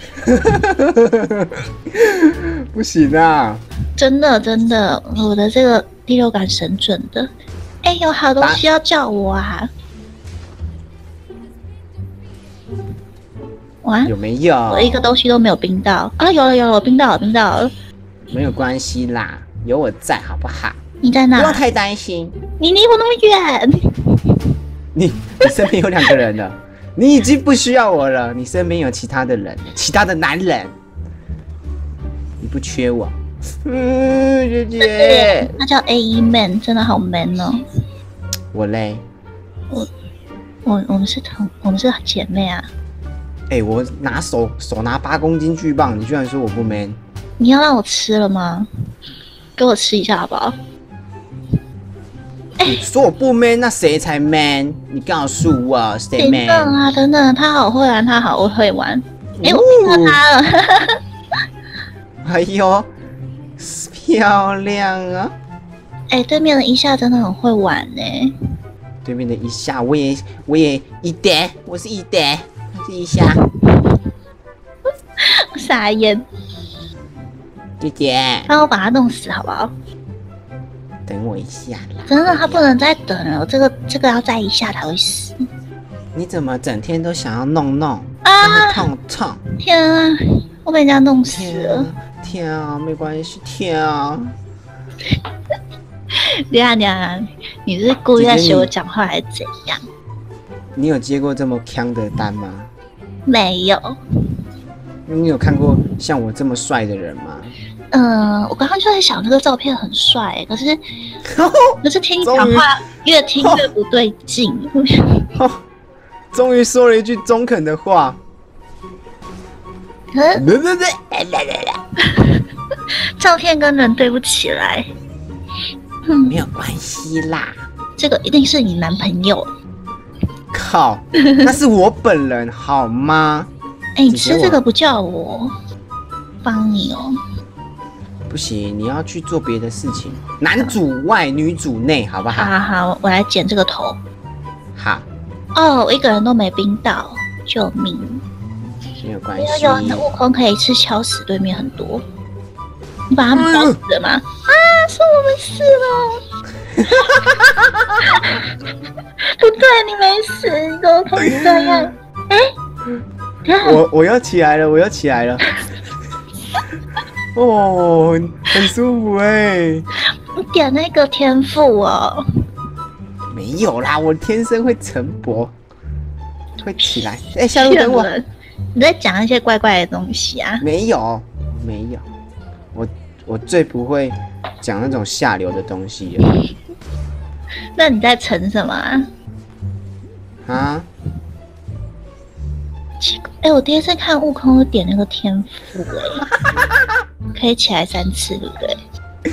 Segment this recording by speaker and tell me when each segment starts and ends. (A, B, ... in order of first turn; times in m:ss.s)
0:00.2-0:03.6 A
0:04.0-0:07.3 B
0:07.8-0:09.7 B
0:13.8-0:14.1 B
0:14.0-0:15.1 A
0:14.7-0:17.7 B
0:18.3-0:20.8 A
0:21.0-0:21.6 B
0:21.4-0:22.4 A
0:22.6-0:24.6 B
0:24.9-0:30.7 A
0:32.4-0:35.6 A
0:34.8-0:37.6 B
0:38.5-0:39.0 A
0:40.6-0:42.7 B
0:43.5-0:47.0 A
0:47.4-0:48.7 B
0:49.6-0:50.6 B
0:52.6-0:56.8 A
0:56.2-1:01.0 B
0:59.4-1:00.2 A
1:02.2-1:02.9 A
1:03.6-1:05.3 A
1:06.1-1:08.3 B
1:09.0-1:13.4 A
1:15.2-1:16.2 B
1:17.8-1:18.5 A
1:18.5-1:19.7 B
1:21.0-1:22.6 A
1:22.1-1:25.4 B
1:26.1-1:29.4 A
1:28.2-1:28.9 B
1:29.6-1:31.9 B
1:31.2-1:34.3 A
1:36.1-1:39.8 B
1:38.2-1:38.7 A
1:40.7-1:42.7 A
1:43.2-1:44.3 B
1:45.0-1:47.6 A
1:47.9-1:50.8 B
1:51.3-1:52.7 A
1:51.8-1:55.3 B
1:53.4-1:53.7 A
1:55.3-1:55.6 A
1:56.3-1:58.2 A
2:00.1-2:00.4 B
2:00.3-2:01.8 A
2:02.0-2:02.4 B
2:03.0-2:04.9 B
2:06.0-2:06.4 B
2:06.2-2:07.7 A
2:08.0-2:09.5 B
2:10.5-2:13.5 A
2:14.0-2:15.5 B
2:14.1-2:14.6 A
2:16.4-2:17.1 B
2:18.3-2:22.5 A
2:22.3-2:24.0 B
2:24.8-2:25.1 A
2:25.5-2:28.2 B
2:29.0-2:30.1 A
2:29.4-2:32.0 B
2:33.1-2:36.2 B
2:33.4-2:33.8 A
2:36.8-2:38.0 A
2:38.0-2:38.5 B
2:39.2-2:42.5 B
2:43.4-2:43.8 B
2:43.6-2:45.5 A
2:47.3-2:49.9 A
2:50.4-2:52.2 B
2:53.3-2:55.5 A
2:56.6-2:58.1 A
2:57.5-3:00.6 B
3:00.6-3:02.0 A
3:02.7-3:06.3 A
3:07.8-3:09.1 B
3:10.4-3:10.9 A
3:13.0-3:16.2 B
3:17.3-3:18.8 B